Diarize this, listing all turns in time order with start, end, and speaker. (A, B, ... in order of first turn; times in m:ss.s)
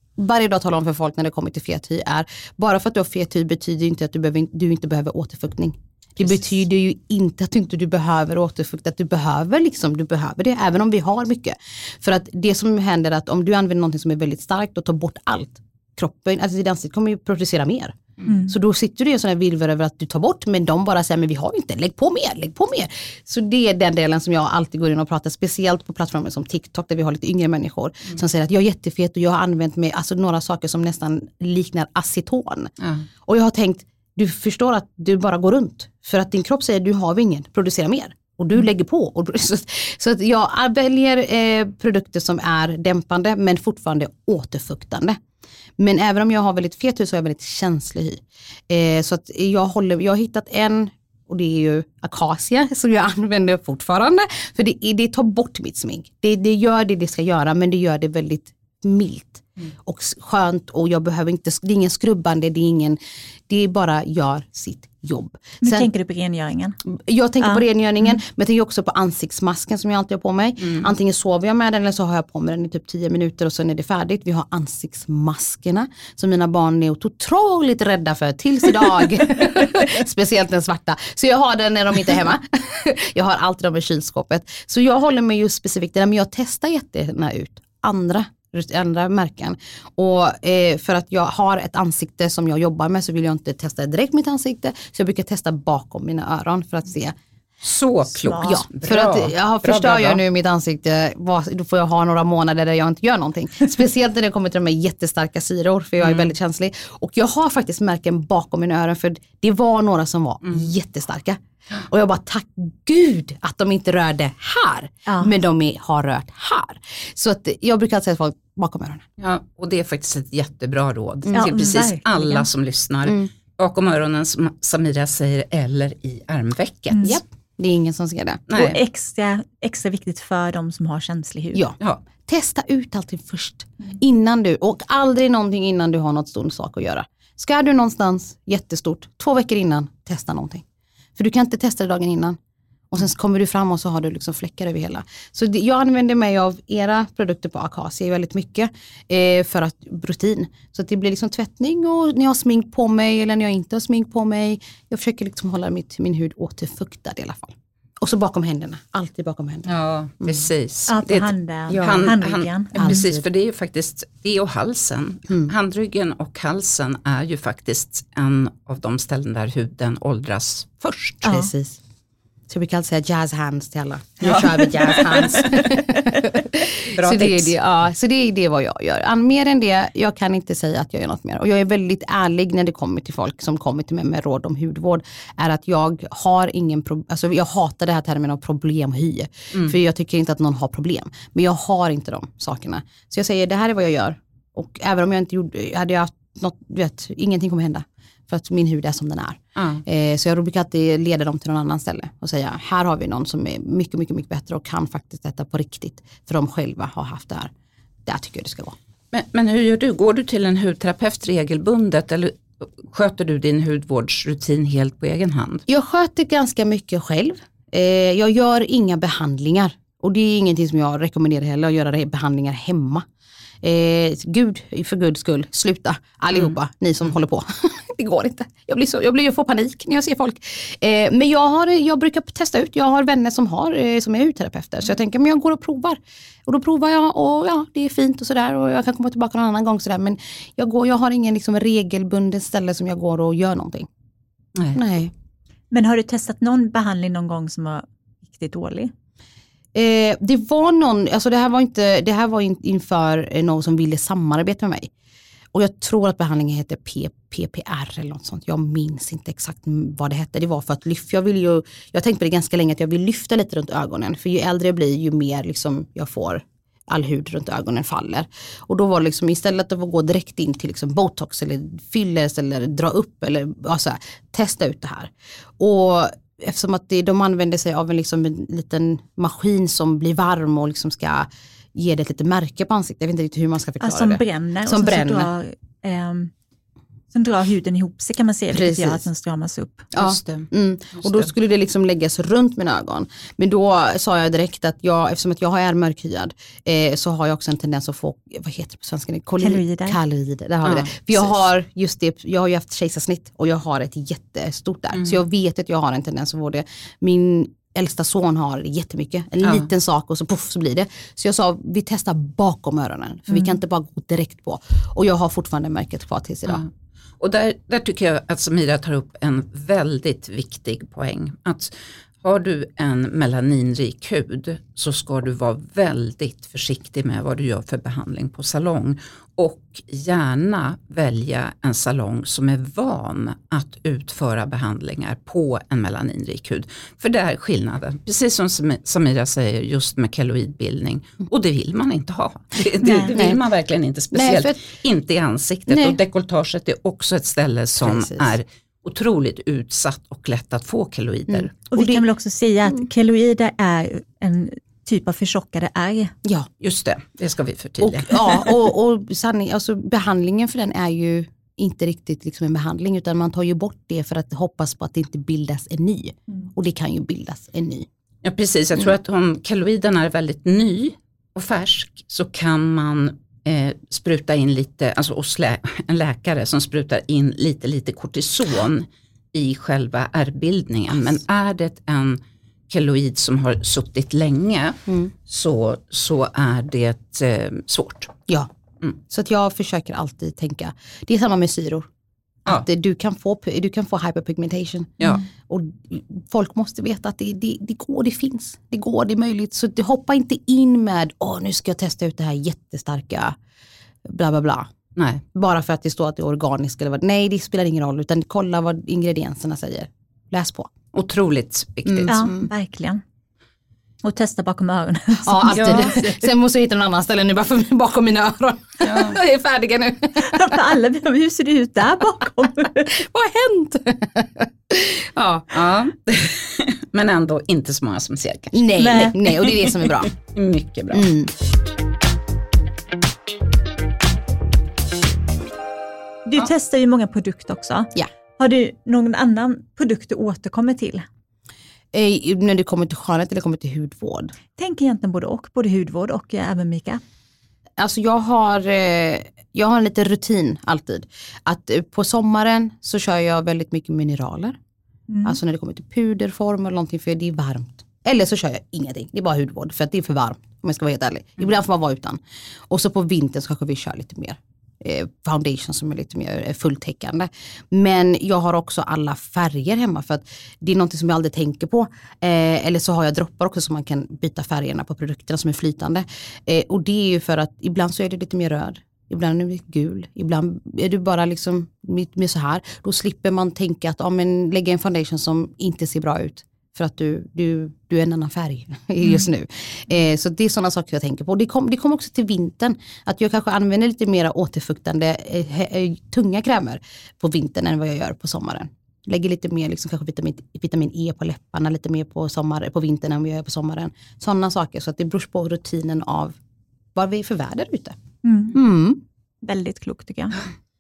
0:00.2-0:32.7 A
0:18.2-0:18.5 B
0:33.2-0:45.2 A
0:45.8-1:03.0 A
1:03.5-1:05.9 A
1:05.6-1:06.8 B
1:06.8-1:37.2 A
1:37.6-1:40.2 C
1:38.1-1:38.6 B
1:38.4-1:59.0 A
1:55.0-1:55.3 B
1:59.2-2:07.2 C
2:01.3-2:01.7 A
2:01.3-2:02.5 B
2:06.9-2:07.2 B
2:07.1-2:08.7 A
2:08.5-2:08.8 C
2:08.5-2:11.6 B
2:11.5-2:20.6 A
2:21.2-2:22.4 A
2:22.9-2:39.7 A
2:39.7-2:51.2 C
2:40.2-2:40.5 A
2:40.9-2:43.0 B
2:41.7-2:42.1 A
2:42.8-2:43.2 A
2:51.2-2:51.5 B
2:51.2-2:51.8 A
2:52.5-3:27.5 A
2:54.2-2:55.6 C
2:56.9-2:57.5 C
3:19.6-3:19.8 C
3:28.0-3:28.8 A
3:29.1-3:35.6 C
3:35.7-3:43.0 A
3:43.6-4:03.9 A
4:04.7-4:05.1 A
4:05.7-4:08.9 B
4:09.7-4:14.9 A
4:15.5-4:45.3 A
4:43.8-4:46.3 B
4:47.1-4:49.9 B
4:48.5-4:49.0 A
4:49.9-5:16.6 A
4:50.0-4:51.3 C
4:59.4-5:00.0 B
5:00.6-5:01.0 C
5:16.5-5:51.5 C
5:42.8-5:43.2 B
5:43.1-5:43.4 A
5:44.1-5:44.6 A
5:45.7-5:46.0 A
5:47.8-5:48.3 A
5:51.3-5:52.0 A
5:51.7-5:56.2 B
5:56.2-5:56.5 A
5:56.6-5:58.5 C
5:57.8-6:07.9 A
6:08.2-6:28.1 C
6:24.9-6:25.1 A
6:29.1-6:31.9 A
6:32.4-6:43.4 A
6:44.0-6:44.7 A
6:45.0-6:45.2 C
6:45.3-6:50.7 A
6:50.9-6:52.3 C
6:51.9-6:52.5 A
6:52.1-6:53.0 B
6:54.0-6:56.2 B
6:55.2-7:00.6 A
6:55.5-6:56.0 C
6:58.8-6:59.2 C
7:00.2-7:02.9 B
7:02.9-7:05.7 A
7:05.5-7:11.1 C
7:08.5-7:10.1 A
7:08.8-7:09.2 B
7:10.9-7:11.3 A
7:16.2-7:21.0 B
7:21.9-7:24.3 A
7:24.6-7:27.0 B
7:27.8-7:34.6 A
7:35.1-7:35.4 B
7:35.2-8:26.4 A
8:27.0-8:28.0 A
8:28.2-8:28.6 B
8:28.5-8:29.0 A
8:29.4-8:30.4 B